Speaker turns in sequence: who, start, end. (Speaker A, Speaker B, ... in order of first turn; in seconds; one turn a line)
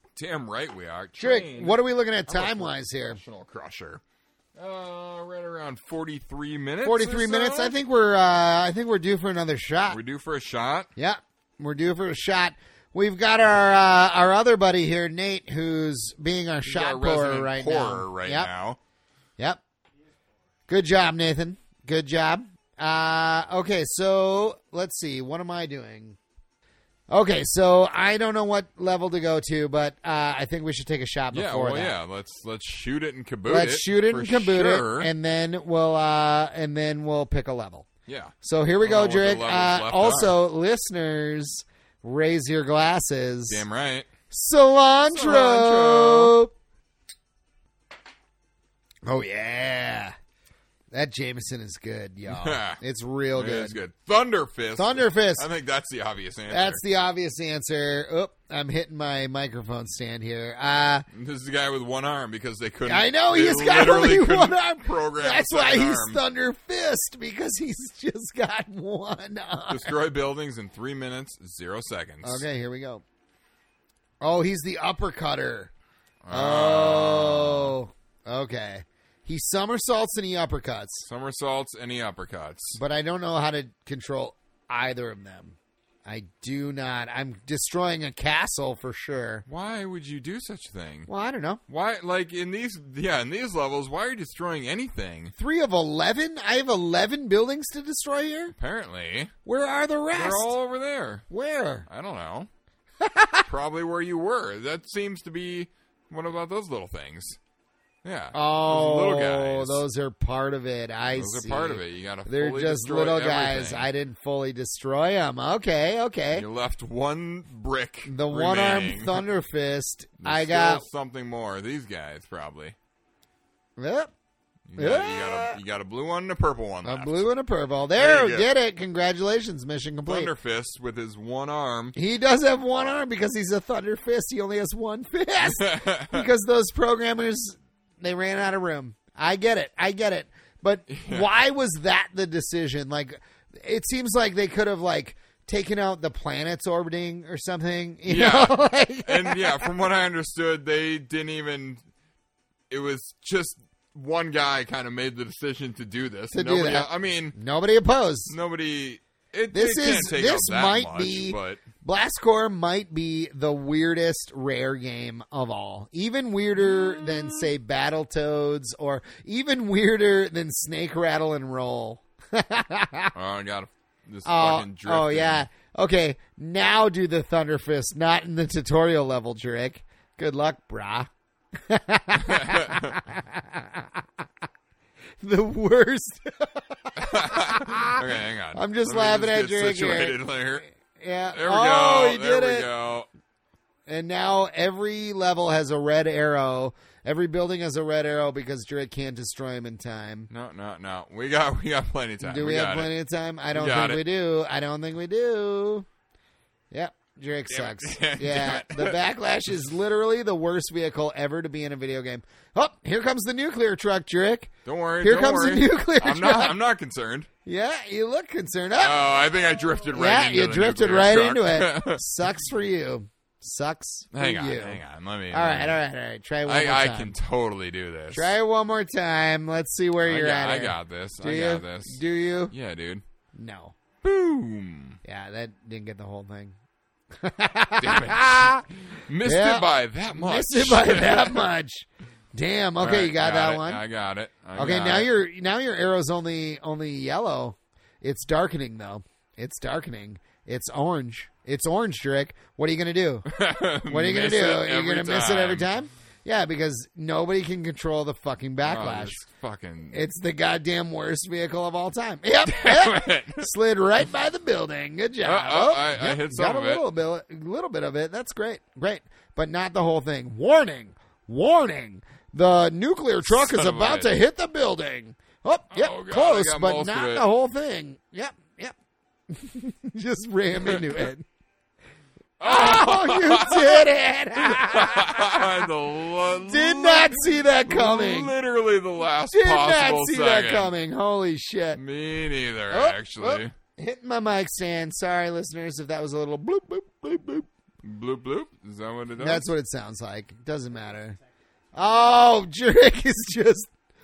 Speaker A: 0.1-4.0
Speaker B: 1.2-3.2
Speaker A: 4.5-7.8
Speaker B: 6.8-10.0
Speaker A: 9.9-10.9
Speaker B: 10.9-18.5
Speaker A: 16.6-18.8
Speaker B: 20.7-26.2
Speaker B: 27.1-31.9
Speaker A: 31.3-35.1
Speaker B: 33.5-37.9
Speaker A: 38.1-40.3
Speaker B: 38.4-43.6
Speaker A: 43.5-44.1
Speaker B: 44.3-46.5
Speaker A: 45.1-46.4
Speaker B: 49.0-50.1
Speaker B: 50.9-53.8
Speaker A: 52.3-52.8
Speaker A: 53.3-56.8
Speaker B: 54.8-55.5
Speaker B: 56.5-61.0
Speaker A: 61.1-66.2
Speaker B: 62.9-70.0
Speaker A: 69.7-72.4
Speaker B: 72.2-73.0
Speaker B: 74.2-75.7
Speaker A: 76.2-77.8
Speaker B: 76.3-81.0
Speaker A: 81.0-82.8
Speaker B: 82.7-89.4
Speaker A: 89.5-91.1
Speaker B: 91.1-91.6
Speaker A: 91.7-95.3
Speaker B: 95.4-98.5
Speaker A: 98.5-99.3
Speaker B: 99.4-100.5
Speaker A: 100.1-101.2
Speaker B: 101.3-101.9
Speaker A: 101.9-102.5
Speaker B: 103.0-103.4
Speaker A: 103.5-107.4
Speaker A: 108.0-109.8
Speaker B: 108.3-116.5
Speaker A: 111.1-113.9
Speaker A: 116.3-119.2
Speaker B: 118.0-120.8
Speaker A: 120.2-122.8
Speaker B: 123.8-124.1
Speaker A: 124.7-127.2
Speaker B: 124.8-125.6
Speaker B: 126.8-130.3
Speaker A: 127.9-128.5
Speaker A: 130.1-131.9
Speaker B: 131.9-149.7
Speaker A: 135.4-136.3
Speaker A: 140.9-141.3
Speaker A: 148.1-151.8
Speaker A: 152.7-157.4
Speaker B: 156.3-158.3
Speaker A: 158.3-161.6
Speaker B: 159.5-173.1
Speaker A: 166.6-167.5
Speaker A: 173.1-175.4
Speaker B: 174.2-181.1
Speaker B: 181.6-184.0
Speaker A: 182.2-183.0
Speaker B: 185.2-188.0
Speaker A: 186.9-190.7
Speaker B: 188.5-190.3
Speaker B: 190.9-192.7
Speaker A: 191.3-193.1
Speaker B: 193.9-200.3
Speaker A: 200.3-202.9
Speaker B: 202.2-205.9
Speaker A: 203.5-204.0
Speaker B: 206.7-216.6
Speaker A: 207.5-209.0
Speaker A: 214.6-217.3
Speaker B: 217.4-219.1
Speaker A: 218.8-222.0
Speaker B: 219.9-227.2
Speaker A: 224.1-225.8
Speaker A: 226.4-228.3
Speaker B: 228.1-232.5
Speaker A: 230.0-233.0
Speaker B: 233.3-233.7
Speaker A: 234.0-235.0
Speaker B: 235.0-236.6
Speaker B: 237.2-238.7
Speaker A: 237.8-241.5
Speaker B: 239.2-243.8
Speaker A: 242.8-245.1
Speaker B: 244.6-253.3
Speaker A: 253.3-255.7
Speaker B: 253.9-259.2
Speaker A: 258.6-260.0
Speaker B: 259.9-278.7
Speaker A: 262.4-263.5
Speaker A: 265.2-266.8
Speaker A: 273.2-274.1
Speaker A: 275.7-277.2
Speaker B: 279.3-281.2
Speaker A: 280.6-281.1
Speaker A: 282.4-290.7
Speaker B: 282.4-285.6
Speaker B: 286.4-288.3
Speaker B: 289.3-291.8
Speaker A: 291.7-293.5
Speaker B: 292.7-297.5
Speaker A: 297.8-299.4
Speaker B: 299.1-301.2
Speaker B: 301.7-303.7